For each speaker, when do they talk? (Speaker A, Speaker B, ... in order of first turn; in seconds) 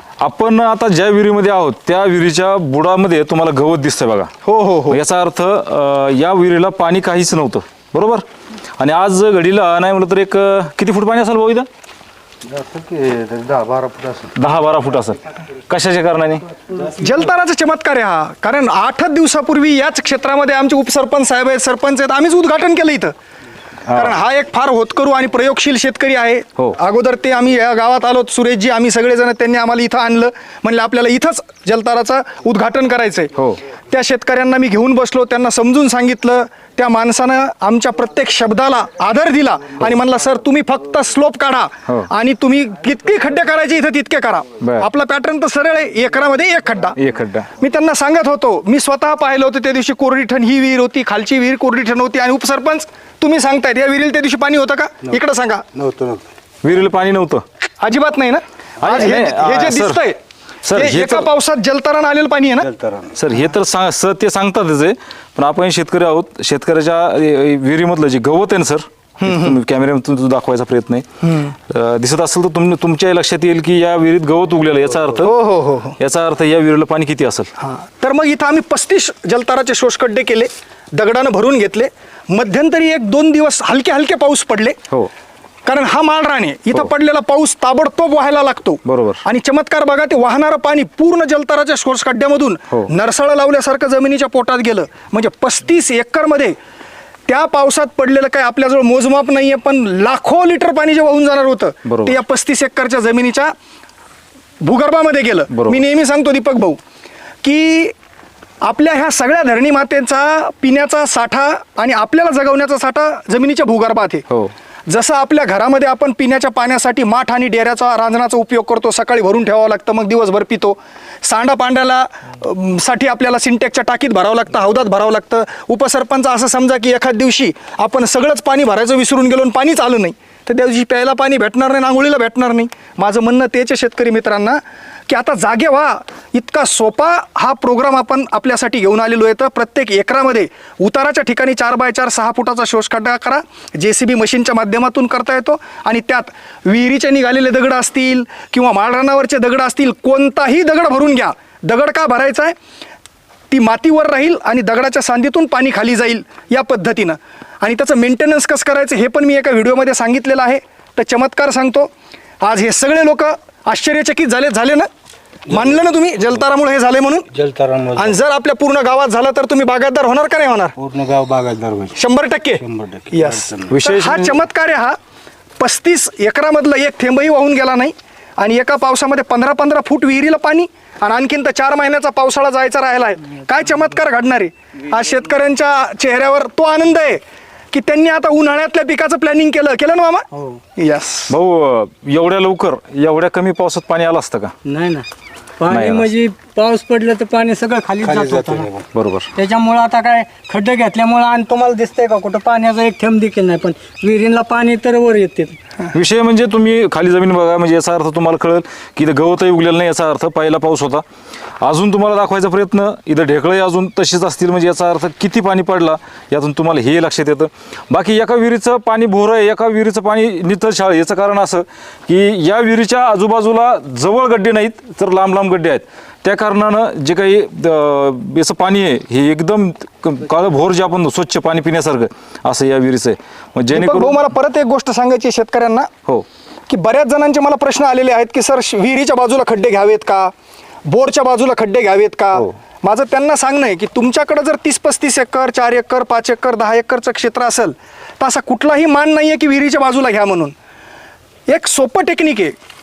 Speaker A: 0.2-4.3, 4.9-8.2, 8.8-11.7, 14.3-16.4, 23.9-24.1, 44.6-44.9, 47.0-47.5, 56.6-57.4, 58.8-60.0, 60.6-61.3, 63.1-75.3, 76.0-77.5, 88.8-89.2, 101.8-102.1, 105.5-105.8, 173.7-174.4, 191.3-194.5, 195.7-196.1, 198.9-199.3, 205.9-211.0, 211.6-234.2
Speaker B: 4.4-5.0, 16.9-23.1, 23.9-33.3, 33.9-47.0, 47.5-55.6, 57.8-60.2, 60.7-62.7, 69.2-69.6, 71.2-71.5, 75.2-76.0, 77.6-84.8, 85.7-96.5, 97.3-103.5, 104.6-106.8, 107.4-107.9, 108.6-114.2, 114.9-152.5, 153.5-161.9, 162.4-164.9, 165.5-167.3, 167.9-170.8, 171.9-174.9, 175.6-191.3, 233.7-235.9, 236.7-240.3, 240.9-250.5, 251.5-252.5
Speaker C: 12.5-14.3, 55.8-56.3, 62.7-63.1, 167.3-168.2, 170.8-172.0, 172.6-173.7, 198.0-198.8
Speaker D: 194.6-195.1, 195.6-198.7, 199.3-205.6